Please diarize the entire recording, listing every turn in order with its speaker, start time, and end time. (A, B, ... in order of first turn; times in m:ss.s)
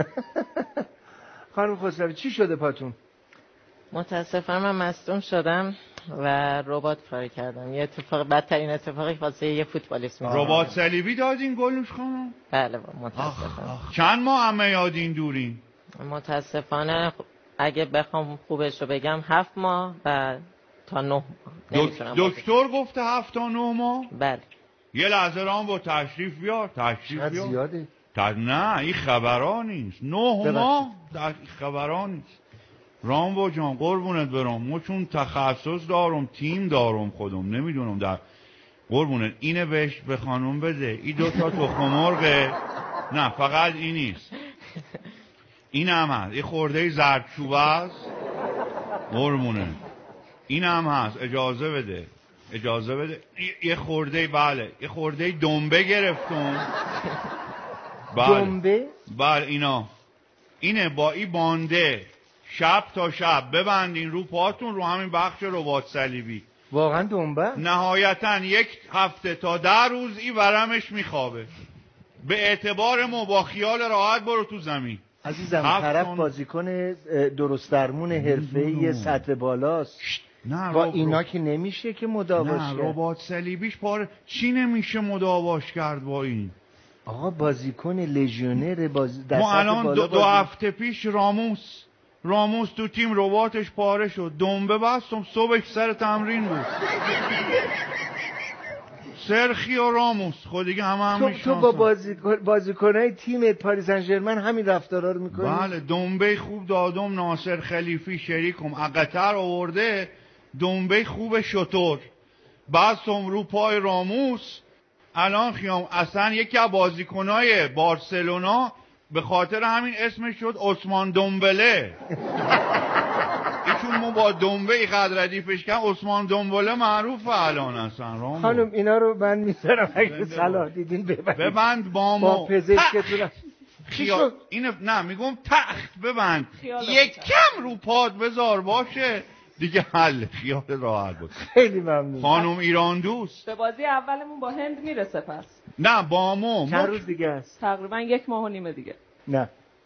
0:00.2-0:00.8 A
0:01.5-0:03.0 A
0:03.9-0:10.8 B
0:10.2-0:10.7 A
0:10.3-0:12.4 C
0:12.5-0:13.8 B
0:13.2-0:15.6 C
0:16.0-0:22.4 B
0:21.7-0:24.1 C
0:24.1-0:24.4 B
0:24.9-0:27.6 C
0:27.1-0:27.9 A
0:28.1-0:32.3 C
0:30.4-0:30.9 A
0:33.0-0:38.2 C
0:38.9-0:42.6 C
0:43.1-0:44.3 C
0:45.7-0:48.1 C
0:49.1-0:49.8 C
0:50.5-0:56.7 C
0:58.1-0:59.9 C
0:58.2-0:58.9 A
1:00.6-1:06.5 C
1:06.7-1:07.6 A
1:07.6-1:11.5 C
1:12.2-1:15.0 C
1:15.2-1:20.0 A
1:15.6-1:16.3 C
1:18.1-1:19.3 C
1:20.0-1:21.2 C
1:20.7-1:23.0 A
1:22.4-1:26.6 C
1:27.1-1:30.5 A
1:29.3-1:36.7 C
1:39.1-1:41.9 C
1:41.1-1:45.7 A
1:45.3-1:52.1 C
1:52.7-1:54.6 C
1:55.2-2:02.0 C
2:03.6-2:08.7 C
2:08.4-2:11.6 A
2:10.0-2:10.7 C
2:11.4-2:13.2 C
2:12.2-2:13.3 A
2:13.9-2:21.3 C
2:13.9-2:14.4 A
2:16.6-2:17.8 D
2:21.3-2:22.4 A
2:22.2-2:23.4 C
2:23.4-2:25.6 D
2:25.8-2:27.0 C
2:26.7-2:27.6 A
2:27.6-2:29.0 D